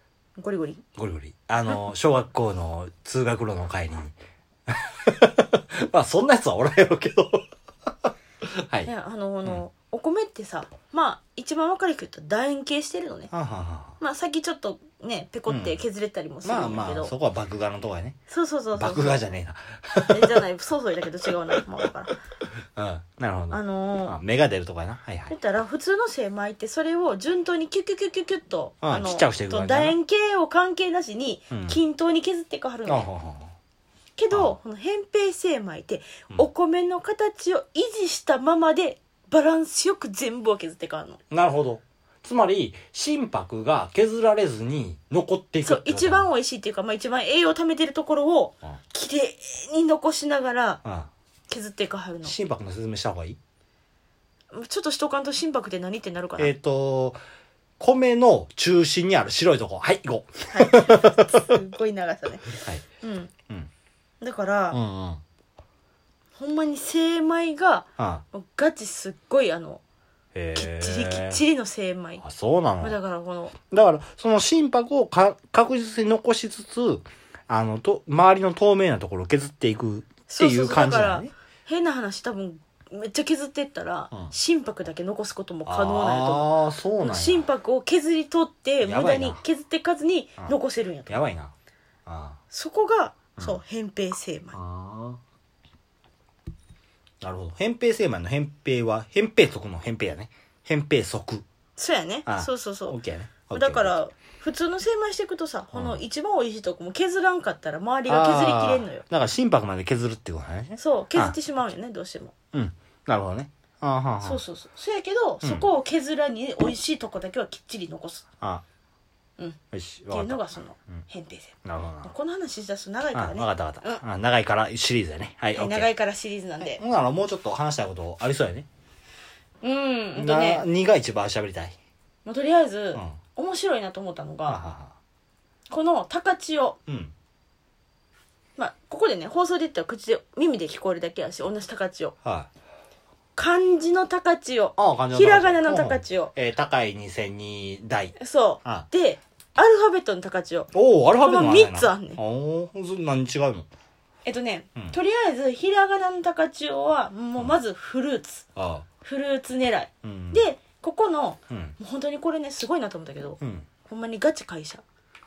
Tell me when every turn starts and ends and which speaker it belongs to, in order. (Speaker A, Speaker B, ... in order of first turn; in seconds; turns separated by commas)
Speaker A: 0.4-0.8, Speaker B: 1.0-4.2, Speaker B: 4.7-7.5, Speaker B: 8.0-8.9, Speaker A: 8.8-13.3, Speaker B: 13.3-14.0, Speaker A: 14.0-17.1, Speaker B: 15.5-15.8, Speaker B: 16.4-18.2, Speaker A: 18.3-19.2, Speaker B: 18.8-20.4, Speaker A: 20.1-22.2, Speaker B: 22.6-25.3, Speaker A: 23.5-24.2, Speaker A: 25.3-33.1, Speaker B: 28.8-30.0, Speaker B: 31.5-31.8, Speaker B: 32.9-33.5, Speaker A: 34.2-41.2, Speaker B: 34.3-34.6, Speaker B: 41.3-46.3, Speaker A: 45.6-50.8, Speaker B: 50.8-51.1, Speaker A: 51.5-52.4, Speaker B: 52.2-53.4, Speaker A: 54.5-56.5, Speaker B: 56.4-57.2, Speaker B: 57.8-61.5, Speaker A: 60.5-63.3, Speaker B: 62.6-62.8, Speaker A: 64.2-64.8, Speaker B: 64.7-65.2, Speaker A: 66.4-69.8, Speaker B: 68.0-68.2, Speaker B: 70.3-71.4, Speaker A: 70.5-72.2, Speaker B: 72.2-73.0, Speaker A: 72.8-73.6, Speaker B: 73.6-81.3, Speaker A: 80.3-91.1, Speaker B: 85.7-87.5, Speaker B: 88.8-89.4, Speaker B: 91.1-91.5, Speaker B: 92.1-92.4, Speaker A: 92.5-94.6, Speaker B: 94.5-95.2, Speaker B: 97.2-101.5, Speaker A: 101.8-103.0, Speaker B: 102.3-104.0, Speaker A: 103.5-109.0, Speaker B: 105.7-106.0, Speaker B: 108.1-111.3, Speaker A: 110.8-112.3, Speaker B: 112.5-114.4, Speaker A: 114.2-118.3, Speaker B: 115.4-115.7, Speaker B: 119.7-120.4, Speaker A: 120.1-124.0, Speaker B: 121.7-122.1, Speaker B: 123.1-125.9, Speaker A: 125.5-126.8, Speaker B: 126.6-128.7, Speaker A: 129.6-130.6, Speaker B: 130.2-131.8, Speaker A: 132.2-134.6, Speaker B: 134.5-134.9, Speaker A: 135.7-136.8, Speaker B: 136.9-137.1, Speaker A: 138.6-142.2, Speaker B: 142.2-142.5, Speaker A: 143.4-146.3, Speaker B: 144.8-148.9, Speaker A: 148.2-152.2, Speaker B: 150.7-153.7, Speaker A: 154.2-158.5, Speaker B: 158.6-158.9, Speaker A: 159.0-164.8, Speaker B: 160.0-160.4, Speaker B: 161.5-161.8, Speaker B: 163.4-163.7